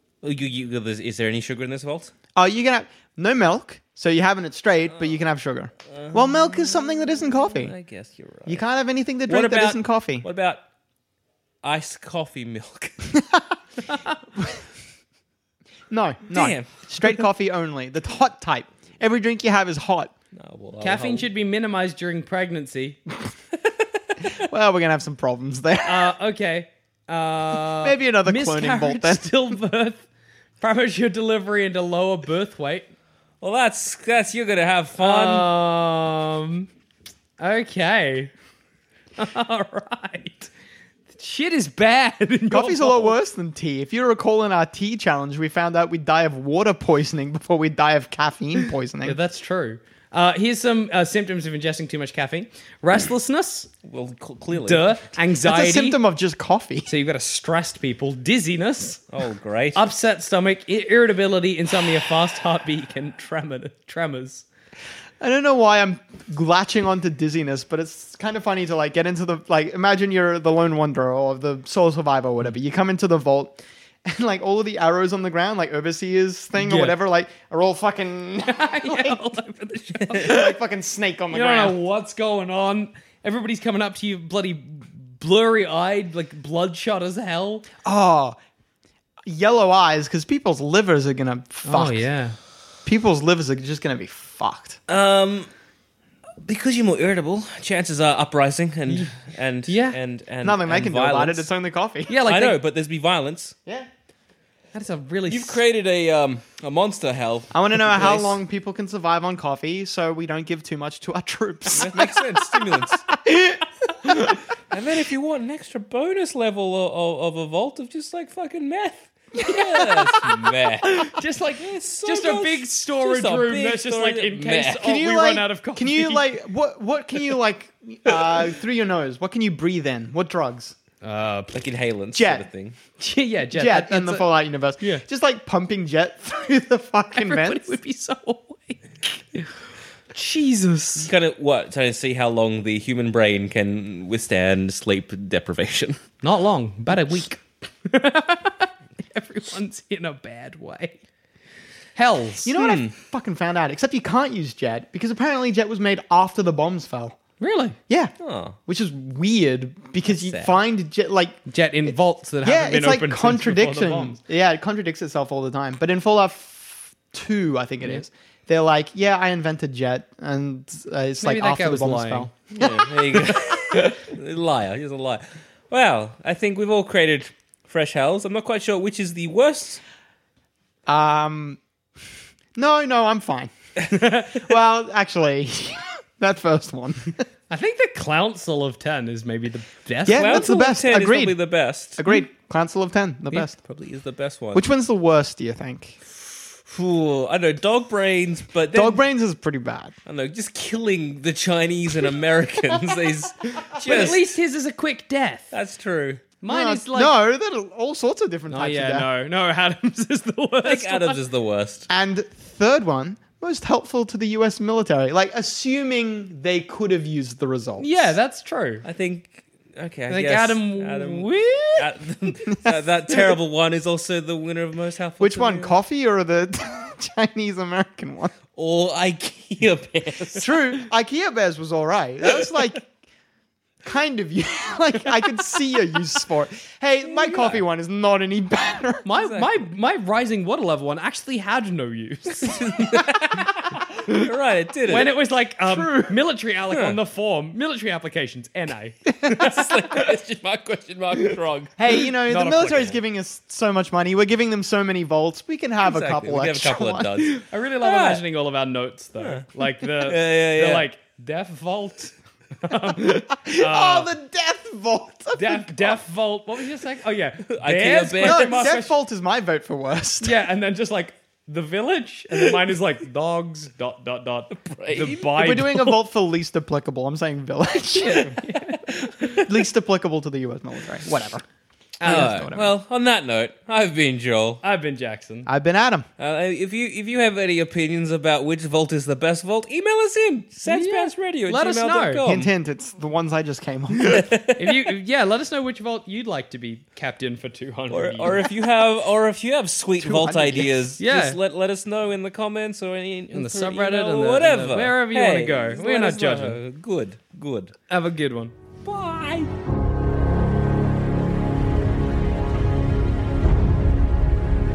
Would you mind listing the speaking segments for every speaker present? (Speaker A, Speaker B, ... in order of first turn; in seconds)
Speaker A: 0.2-2.1, 4.9-5.2, 5.9-8.7, 9.3-10.6, 11.6-13.1, 16.3-16.8, 20.3-21.3, 33.4-35.5, 53.9-55.1, 59.1-59.8, 94.9-95.5, 96.4-101.5, 102.2-103.6, 105.3-108.4, 111.7-113.1, 114.7-124.8, 131.5-132.8, 140.9-146.0, 152.6-152.9, 158.2-158.6, 160.1-160.6, 172.5-179.8, 190.1-192.0, 193.6-194.7, 196.7-199.0, 200.1-204.3, 205.5-206.3, 210.6-211.9, 218.8-225.7, 228.5-230.6, 237.0-237.6, 239.2-239.6, 242.4-245.1, 246.7-247.0, 249.2-251.7, 255.8-258.2, 259.2-260.9, 267.5-268.8, 274.6-275.3, 278.1-279.3, 282.0-284.6, 286.2-292.5, 294.1-294.9, 297.9-307.7, 308.9-309.5
Speaker B: 2.4-7.7, 8.5-10.2, 15.9-20.1, 24.4-26.1, 27.8-29.3, 42.5-49.2, 55.4-56.9, 65.2-79.2, 80.1-81.8, 87.8-88.4, 89.2-92.1, 92.8-94.8, 100.4-102.1, 107.5-112.2, 124.8-130.8, 132.1-132.4, 133.5-137.7, 152.4-157.2, 158.7-161.4, 162.4-173.4, 180.9-181.6, 182.6-187.2, 190.1-191.4, 192.0-193.6, 194.6-196.0, 198.7-199.9, 206.5-209.1, 211.9-218.1, 225.2-228.4, 230.4-232.9, 233.8-239.1, 245.7-246.2, 251.8-257.1, 263.0-266.0, 268.2-270.4, 275.3-278.4, 279.3-281.4, 282.0-282.7, 285.5-286.1, 292.3-294.3, 300.0-300.9
Speaker C: 20.8-23.0, 25.9-30.0, 30.6-32.9, 35.0-36.7, 37.4-38.3, 39.2-40.5, 41.1-43.2, 49.0-53.7, 54.5-56.0, 56.9-59.0, 59.7-64.5, 76.6-77.0, 78.5-80.6, 81.3-87.7, 91.7-92.4, 98.9-99.2, 99.7-100.0, 102.1-102.6, 104.7-105.6, 119.5-126.4, 131.0-131.6, 133.0-134.2, 137.1-139.5, 140.1-141.1, 146.2-151.0, 151.9-152.5, 157.4-157.8, 161.5-164.2, 171.2-172.3, 187.5-190.5, 203.8-205.5, 206.4-207.2, 208.5-211.2, 217.8-218.8, 220.1-221.9, 239.1-243.5, 244.9-249.7, 252.3-253.0, 257.2-264.1, 265.4-268.9, 270.2-276.0, 278.0-279.4, 282.0-282.5, 284.6-285.5, 290.6-292.2, 294.6-298.5, 301.0-301.4, 303.3-306.6, 307.9-308.5